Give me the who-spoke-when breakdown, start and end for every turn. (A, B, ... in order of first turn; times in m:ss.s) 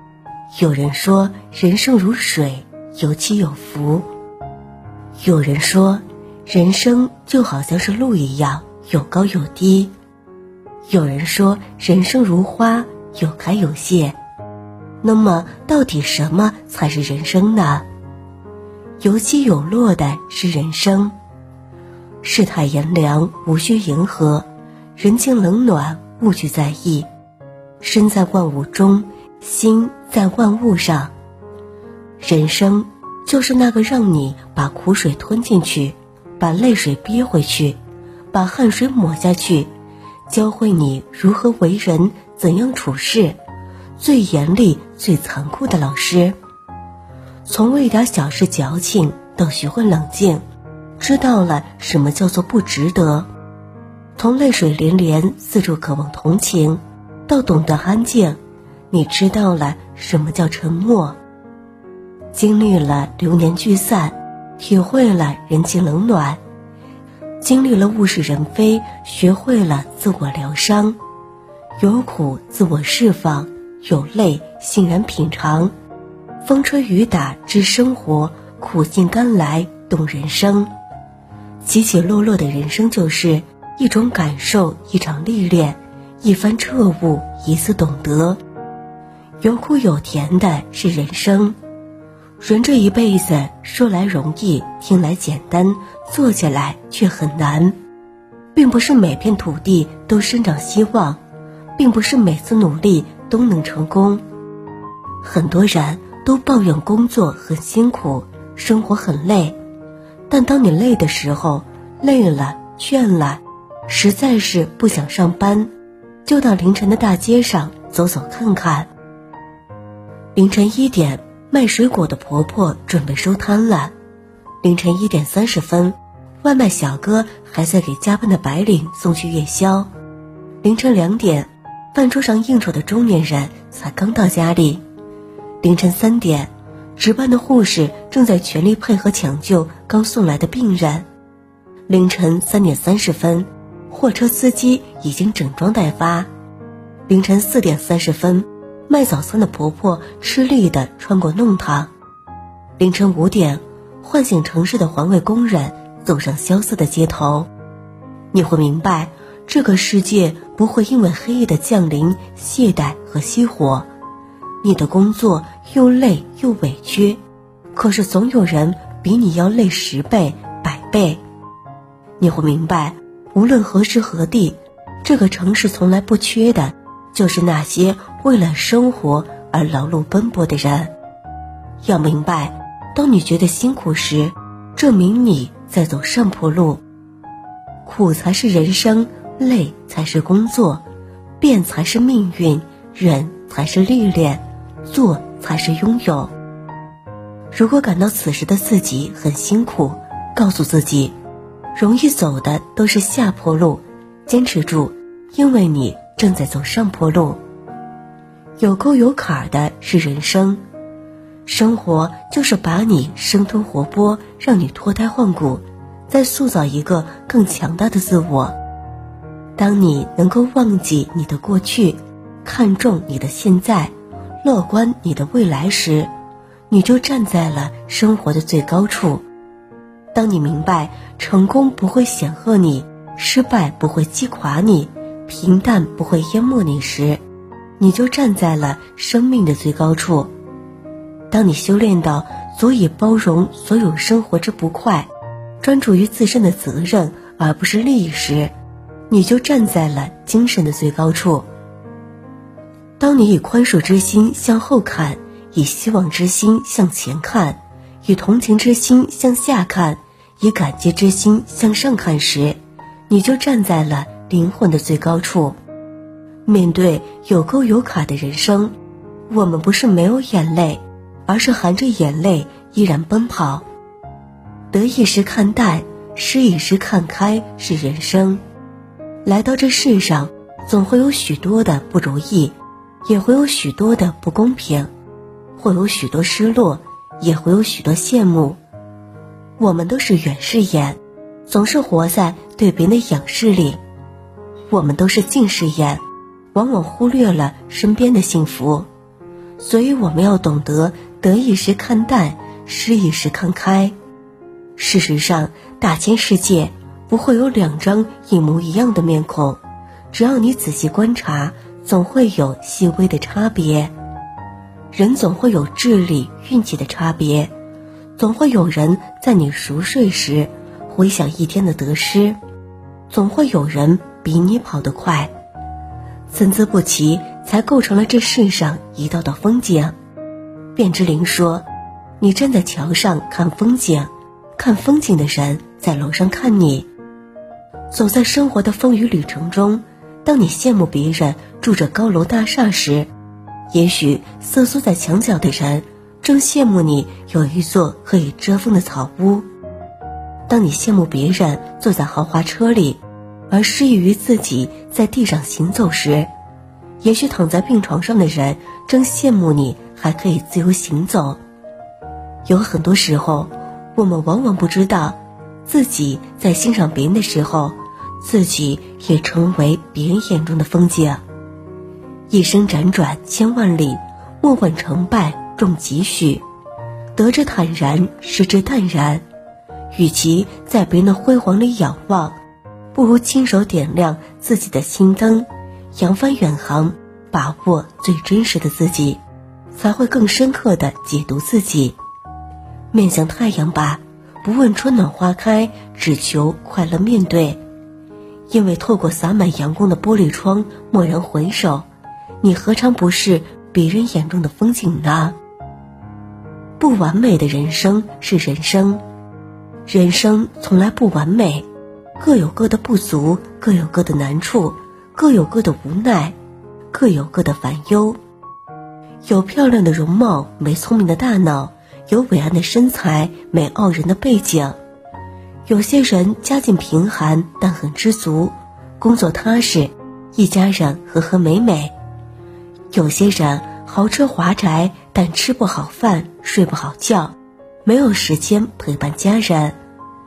0:00.5-0:04.1 A
0:05.2-0:09.9 A
0:10.9-0:14.2 A
0:15.0-0:17.8 A
0:19.0-0:21.1 A
0:22.2-0:27.1 A
0:27.8-0:31.1 A
0:32.2-0:37.8 A
0:38.3-0:39.7 A
0:40.3-0:43.4 A
0:44.0-0:46.4 A
0:47.4-0:50.4 A
0:51.0-0:53.3 A
0:54.2-0:58.4 A
0:58.9-1:01.2 A
1:02.3-1:06.4 A
1:07.4-1:11.0 A
1:11.8-1:15.7 A
1:16.4-1:20.7 A
1:21.6-1:28.4 A
1:29.4-1:31.6 A
1:32.4-1:37.8 A
1:38.5-1:41.2 A
1:41.8-1:44.2 A
1:45.2-1:49.6 A
1:50.3-1:55.7 A
1:56.2-1:58.9 A
2:00.3-2:03.9 A
2:04.6-2:09.9 A
2:10.6-2:14.8 A
2:15.6-2:21.1 A
2:21.9-2:26.3 A
2:27.1-2:31.9 A
2:32.8-2:37.5 A
2:38.3-2:43.9 A
2:44.6-2:47.2 A
2:47.7-2:51.2 A
2:52.2-3:00.9 A
3:01.8-3:06.8 A
3:07.8-3:10.8 A
3:11.4-3:16.3 A
3:17.5-3:21.1 A
3:21.7-3:27.4 A
3:28.6-3:30.6 A
3:31.4-3:38.6 A
3:39.6-3:46.1 A
3:46.7-3:49.2 A
3:50.1-3:57.2 A
3:57.8-4:00.3 A
4:01.3-4:05.1 A
4:05.6-4:08.5 A
4:09.1-4:11.5 A
4:13.0-4:22.6 A
4:23.1-4:25.6 A
4:26.4-4:28.8 A
4:29.3-4:33.6 A
4:34.7-4:38.4 A
4:39.2-4:42.5 A
4:43.0-4:44.9 A
4:45.6-4:48.6 A
4:49.6-4:53.8 A
4:54.7-4:56.0 A
4:56.5-4:58.9 A
4:59.6-5:03.9 A
5:04.8-5:09.6 A
5:10.1-5:13.9 A
5:14.9-5:17.5 A
5:18.2-5:22.4 A
5:23.1-5:25.3 A
5:26.3-5:30.0 A
5:30.8-5:31.6 A
5:32.2-5:36.9 A
5:37.9-5:43.1 A
5:43.7-5:49.4 A
5:50.5-5:56.3 A
5:57.0-6:01.4 A
6:02.4-6:11.2 A
6:12.3-6:16.4 A
6:17.1-6:19.2 A
6:19.9-6:22.4 A
6:22.9-6:29.2 A
6:29.7-6:32.0 A
6:32.9-6:37.6 A
6:38.5-6:41.8 A
6:42.4-6:45.4 A
6:46.8-6:49.0 A
6:49.8-6:51.7 A
6:52.2-6:56.3 A
6:56.9-6:58.2 A
6:59.2-7:04.8 A
7:05.7-7:11.9 A
7:12.9-7:19.8 A